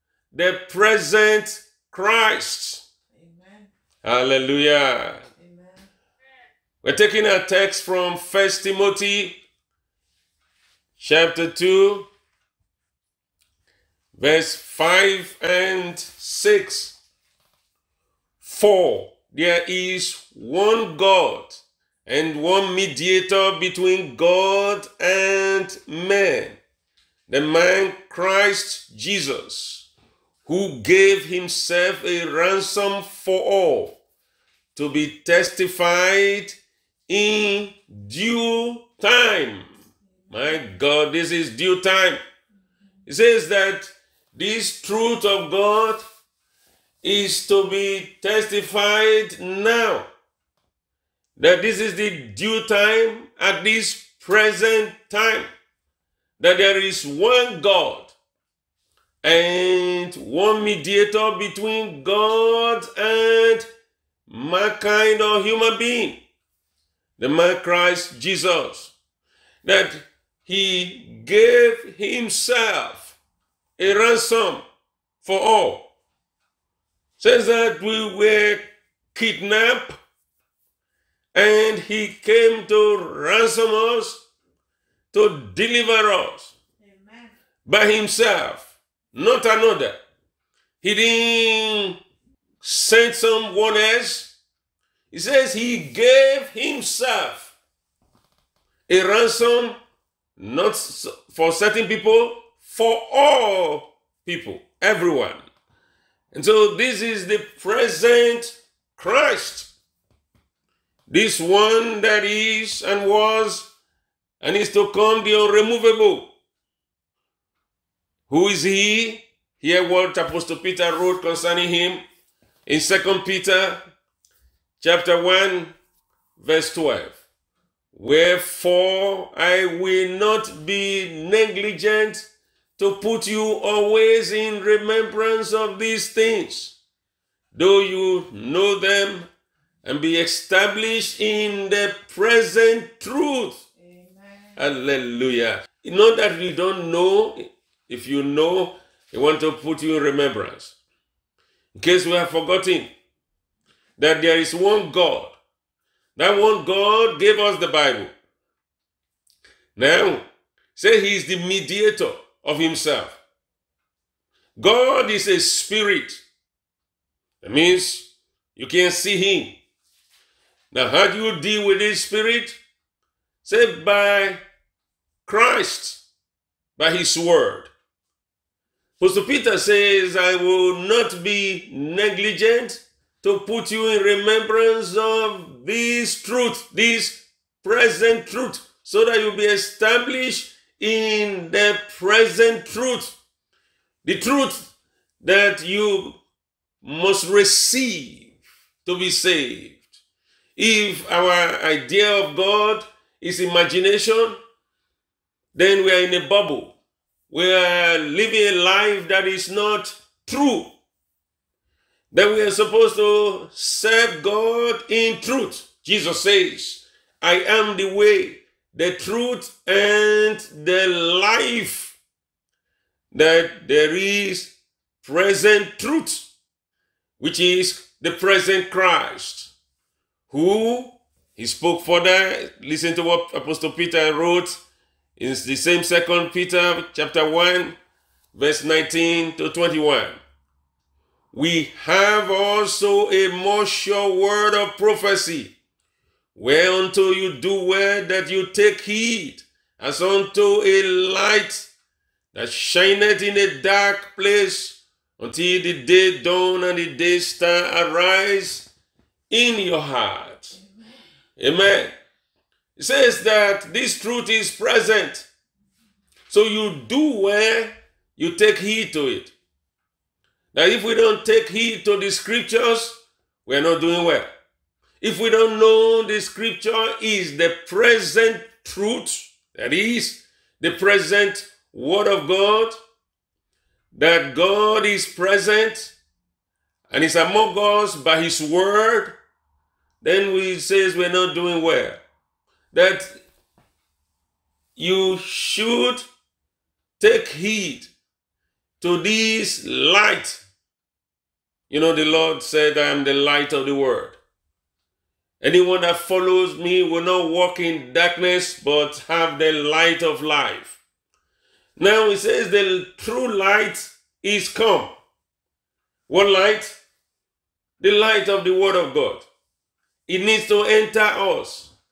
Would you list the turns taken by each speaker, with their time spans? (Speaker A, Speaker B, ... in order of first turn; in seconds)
Speaker A: 0.3-2.8, 4.0-5.2, 6.8-9.4, 11.0-12.1, 14.1-17.0, 18.4-26.6, 27.3-29.9, 30.5-34.0, 34.8-36.6, 37.1-39.7, 40.3-42.2, 43.0-46.0, 47.0-50.1, 51.4-55.5, 56.4-58.1, 59.2-63.7, 64.3-66.2, 67.2-68.9, 69.6-73.2, 73.8-74.6, 75.2-75.9, 77.2-80.0, 81.3-84.2, 85.1-86.5, 87.7-90.0, 90.8-92.0, 92.6-94.3, 95.1-97.5, 98.9-99.8, 100.4-105.5, 106.3-109.7, 111.1-113.7, 114.4-116.3, 118.3-122.0, 122.7-123.8, 124.8-125.7, 126.4-127.2, 127.9-136.8, 137.5-139.3, 139.8-143.6, 144.6-150.8, 151.8-152.9, 154.0-155.4, 156.2-158.1, 159.8-163.2, 164.6-166.2, 167.4-169.6, 170.7-172.6, 173.4-174.4, 175.3-176.0, 176.8-177.7, 179.0-193.2, 194.1-194.7, 195.2-196.2, 196.8-198.3, 198.8-199.9, 200.6-204.4, 205.5-206.8, 207.3-210.7, 212.1-222.0, 223.1-226.3, 227.2-229.5, 230.3-234.6, 235.2-237.8, 238.3-240.2, 241.3-245.6, 246.3-251.7, 252.3-258.7, 259.3-260.6, 261.4-261.9, 262.8-265.3, 266.3-269.3, 270.5-274.3, 275.0-282.8, 283.9-285.9, 286.9-289.1, 290.0-292.0, 292.7-293.2, 294.8-296.1, 297.0-297.9, 298.8-300.4, 301.7-304.2, 305.4-310.8, 311.8-314.9, 316.1-316.8, 317.8-319.3, 320.1-321.7
Speaker B: 3.1-3.7, 5.4-5.9, 40.2-40.6, 86.8-87.3, 143.8-144.6, 260.5-260.9